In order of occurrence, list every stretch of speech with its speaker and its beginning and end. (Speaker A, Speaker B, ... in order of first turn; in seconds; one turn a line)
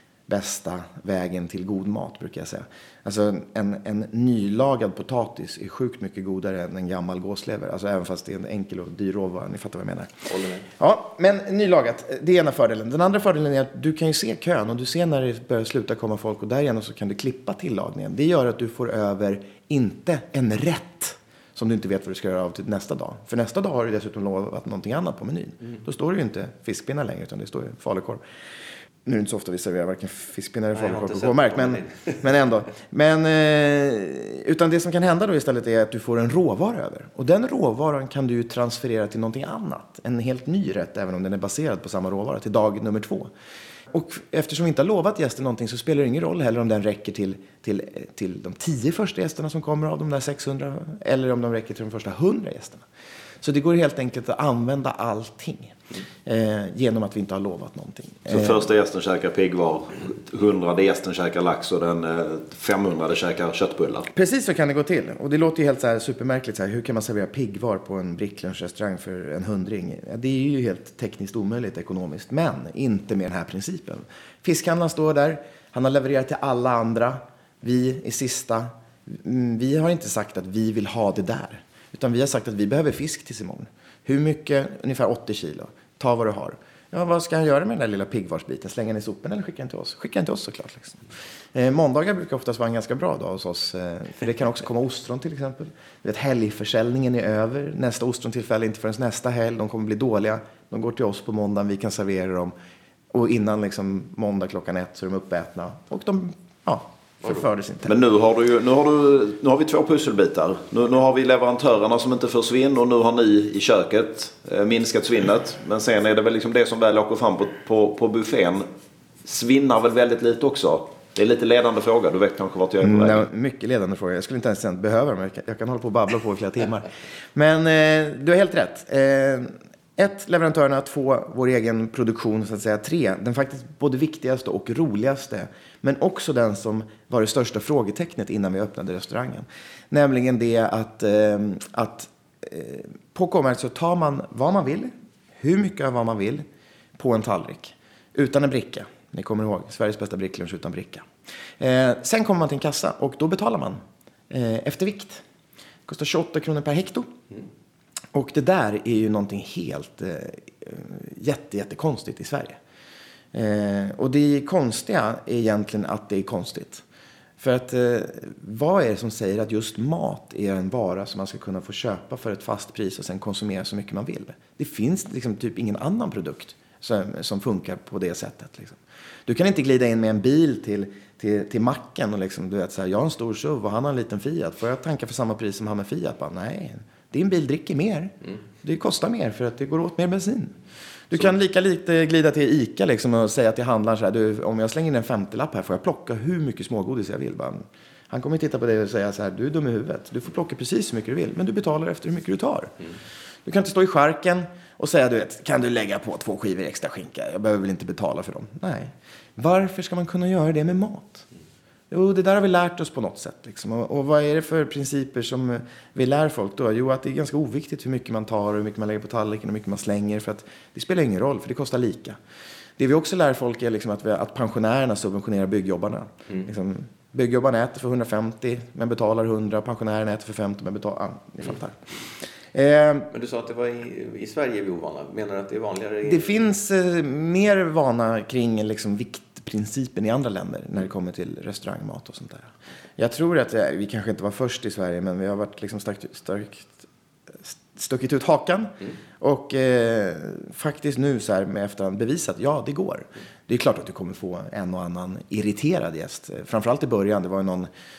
Speaker A: 0.3-10.2
Speaker B: 10.3-10.7
Speaker A: 10.8-28.2
Speaker A: 29.0-43.3
Speaker B: 30.7-32.2
Speaker A: 43.9-52.9
Speaker A: 53.4-58.6
Speaker C: 58.3-64.1
Speaker A: 64.1-102.5
Speaker A: 103.1-107.9
Speaker C: 107.8-118.7
Speaker C: 119.2-123.3
Speaker A: 122.8-146.4
Speaker A: 146.9-151.1
Speaker A: 151.6-153.8
Speaker A: 154.3-155.2
Speaker A: 155.9-157.1
Speaker A: 158.1-162.6
Speaker A: 163.3-166.8
Speaker A: 167.4-190.5
Speaker A: 191.1-202.7
Speaker A: 203.4-211.2
Speaker A: 211.9-222.2
Speaker A: 222.8-231.8
Speaker A: 232.5-233.1
Speaker B: 233.1-236.3
Speaker A: 236.1-246.9
Speaker A: 247.4-257.7